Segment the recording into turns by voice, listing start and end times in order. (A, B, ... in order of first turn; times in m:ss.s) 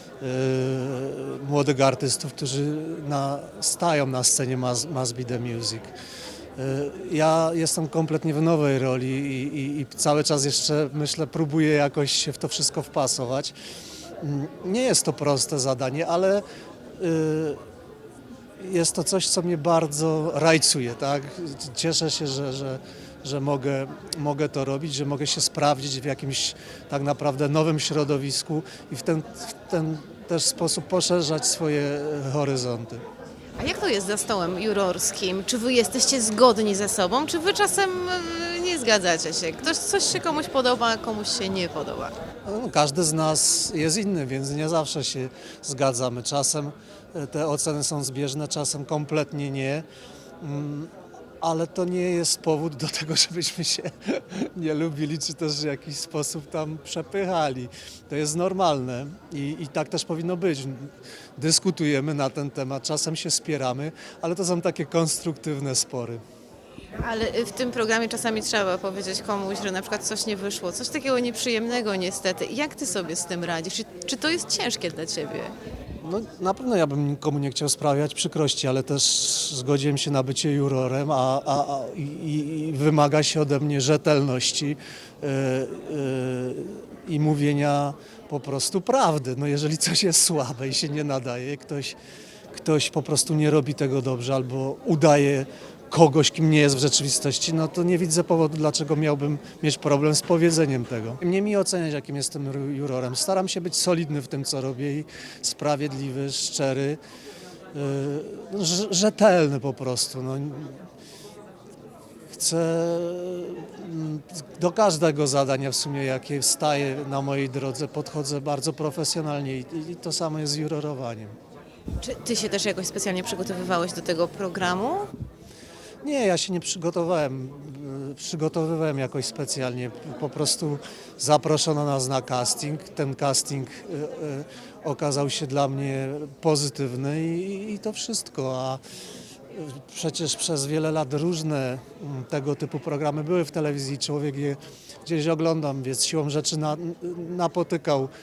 0:00.2-0:05.9 A
0:06.6-0:13.5 A
0:14.2-0:16.4 A
0:17.0-0:17.6 A
0:18.6-0:33.0 A
0:33.6-0:42.2 B
0:42.4-0:49.8 A
0:50.4-1:06.2 A
1:07.0-1:15.5 B
1:16.0-1:32.0 A
1:32.5-1:47.0 A
1:47.7-1:50.8 A
1:52.3-2:01.4 A
2:02.0-2:05.1 B
2:06.0-2:18.8 A
2:19.5-2:28.1 A